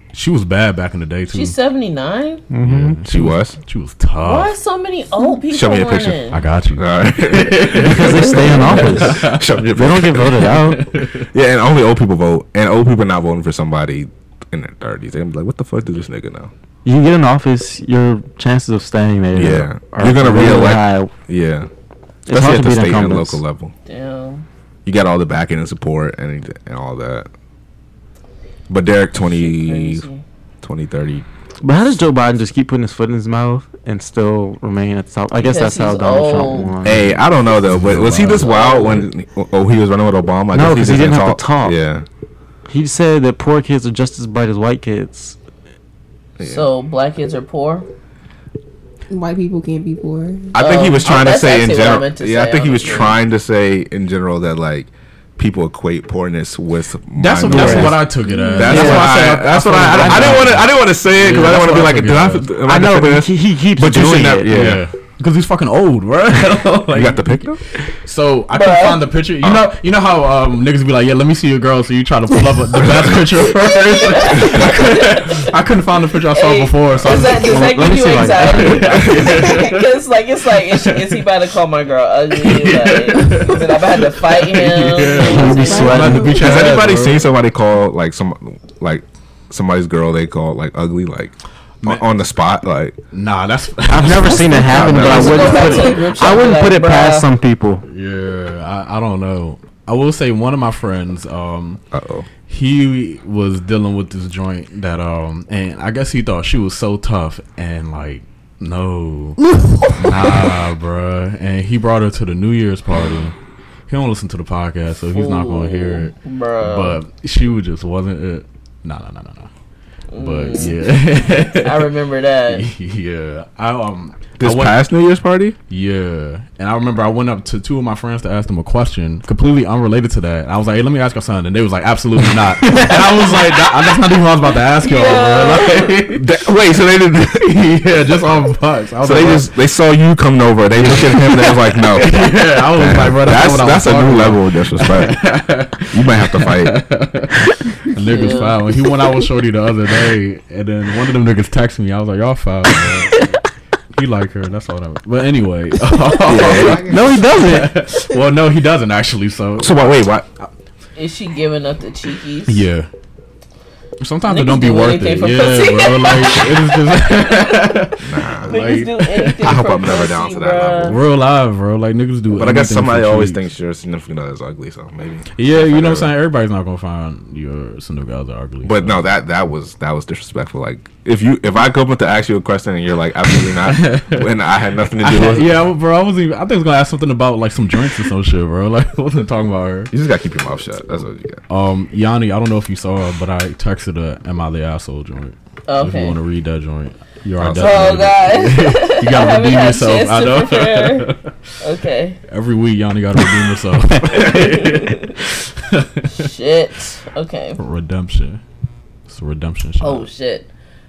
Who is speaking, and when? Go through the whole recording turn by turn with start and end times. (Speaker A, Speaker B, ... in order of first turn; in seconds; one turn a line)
Speaker A: 0.1-1.5
Speaker B: 1.3-2.4
Speaker C: 2.5-3.0
Speaker A: 2.6-4.5
Speaker D: 3.0-3.6
Speaker B: 4.2-6.4
Speaker D: 5.5-10.6
Speaker A: 6.3-11.3
Speaker C: 7.8-10.8
Speaker D: 11.1-16.5
Speaker C: 16.8-21.1
Speaker D: 19.3-21.7
Speaker C: 22.3-23.4
Speaker D: 22.3-23.7
Speaker B: 23.9-24.4
Speaker D: 24.9-27.3
Speaker D: 28.7-30.1
Speaker B: 29.2-30.2
Speaker D: 30.6-31.2
Speaker C: 31.6-37.2
Speaker B: 35.4-36.8
Speaker D: 36.8-42.0
Speaker A: 37.0-38.6
Speaker B: 38.2-39.0
Speaker C: 40.5-41.8
Speaker C: 42.7-45.4
Speaker D: 46.4-46.7
Speaker B: 46.4-47.9
Speaker E: 49.1-50.5
Speaker D: 50.5-64.8
Speaker B: 50.5-53.2
Speaker A: 57.1-62.5
Speaker C: 57.5-58.1
Speaker C: 58.6-59.2
Speaker C: 59.9-60.5
Speaker C: 62.6-64.8
Speaker A: 64.5-77.7
Speaker D: 66.9-67.6
Speaker B: 68.5-69.1
Speaker D: 69.4-69.7
Speaker B: 74.0-75.5
Speaker B: 76.3-86.2
Speaker C: 77.4-79.6
Speaker A: 78.3-79.9
Speaker A: 80.7-81.2
Speaker A: 82.4-87.3
Speaker E: 85.0-86.6
Speaker C: 85.0-86.4
Speaker D: 86.3-93.0
Speaker A: 91.8-92.1
Speaker A: 93.1-96.4
Speaker C: 93.9-97.8
Speaker D: 94.7-95.7
Speaker B: 94.7-97.3
Speaker A: 97.8-101.8
Speaker D: 101.9-102.3
Speaker A: 102.5-113.3
Speaker C: 110.1-110.6
Speaker A: 113.9-119.5
Speaker B: 115.1-117.0
Speaker B: 120.1-122.7
Speaker A: 120.1-121.9
Speaker A: 122.5-124.8
Speaker D: 124.4-125.5
Speaker A: 125.7-136.3
Speaker B: 133.4-133.8
Speaker B: 134.8-136.0
Speaker D: 136.1-137.6
Speaker A: 137.4-139.5
Speaker D: 139.0-145.2
Speaker A: 140.7-153.2
Speaker D: 145.9-146.8
Speaker B: 148.0-148.6
Speaker A: 153.9-159.8
Speaker D: 156.2-156.9
Speaker C: 156.7-157.8
Speaker D: 159.6-160.3
Speaker B: 160.9-162.7
Speaker A: 162.4-162.9
Speaker A: 164.0-169.4
Speaker B: 164.3-167.8
Speaker D: 168.0-168.6
Speaker B: 168.4-171.0
Speaker D: 169.4-171.0
Speaker A: 170.8-173.4
Speaker D: 172.3-176.1
Speaker A: 175.3-179.1
Speaker D: 178.6-185.6
Speaker A: 183.6-184.3
Speaker A: 185.0-189.9
Speaker D: 189.9-191.4
Speaker A: 191.5-201.4
Speaker B: 195.7-196.2
Speaker D: 197.4-198.2
Speaker B: 197.6-202.2
Speaker A: 202.3-206.3
Speaker B: 204.1-205.2
Speaker B: 206.1-207.6
Speaker A: 207.6-208.4
Speaker A: 209.1-210.1
Speaker B: 209.8-210.5